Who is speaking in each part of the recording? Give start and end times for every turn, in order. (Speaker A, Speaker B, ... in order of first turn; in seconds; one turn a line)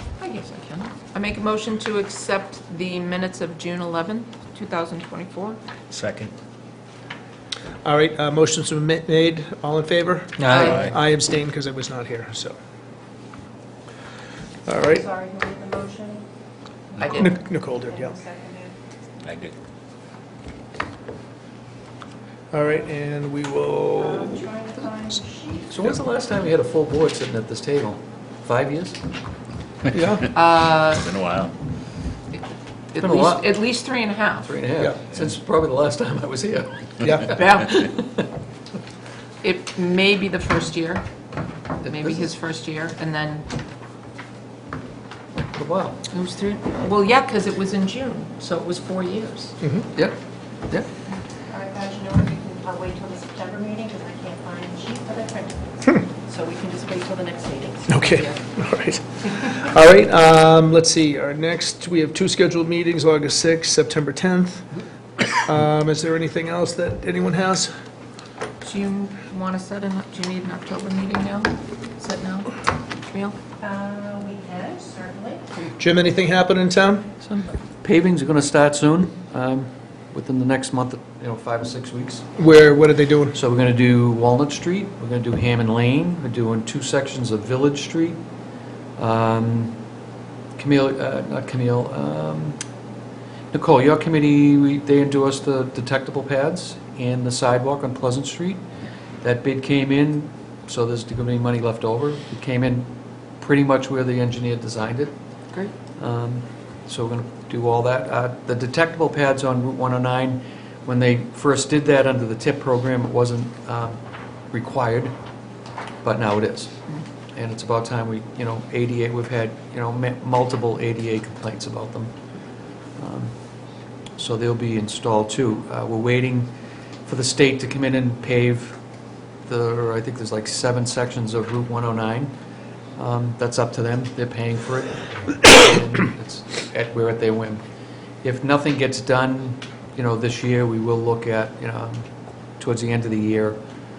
Speaker A: 0.2-5.6
Speaker B: 5.9-6.3
Speaker C: 7.8-12.6
Speaker D: 10.4-10.7
Speaker A: 10.5-10.9
Speaker B: 10.6-11.0
Speaker C: 14.7-15.1
Speaker D: 14.8-16.3
Speaker A: 17.0-17.4
Speaker C: 17.0-18.2
Speaker D: 18.1-18.8
Speaker B: 19.2-19.5
Speaker C: 22.5-24.5
Speaker D: 24.3-25.7
Speaker E: 25.7-29.0
Speaker C: 29.9-30.3
Speaker A: 30.3-31.1
Speaker B: 30.8-31.5
Speaker A: 32.9-34.5
Speaker E: 33.0-33.5
Speaker E: 34.4-38.0
Speaker C: 37.0-37.4
Speaker A: 37.3-37.9
Speaker A: 39.4-41.0
Speaker A: 41.8-43.5
Speaker E: 41.8-42.3
Speaker E: 45.5-46.0
Speaker A: 46.1-49.5
Speaker D: 51.5-58.0
Speaker C: 57.9-64.7
Speaker A: 58.1-58.4
Speaker C: 65.4-67.7
Speaker A: 68.6-72.6
Speaker A: 73.1-73.4
Speaker D: 73.6-75.5
Speaker C: 75.8-77.1
Speaker E: 77.2-82.3
Speaker C: 82.4-83.4
Speaker E: 83.3-88.2
Speaker E: 89.0-89.8
Speaker E: 90.6-92.6
Speaker E: 93.5-98.6
Speaker E: 99.2-105.2
Speaker E: 106.0-115.1
Speaker E: 116.0-122.1
Speaker E: 123.0-128.8
Speaker E: 129.4-132.3
Speaker E: 132.9-137.6
Speaker E: 138.2-143.6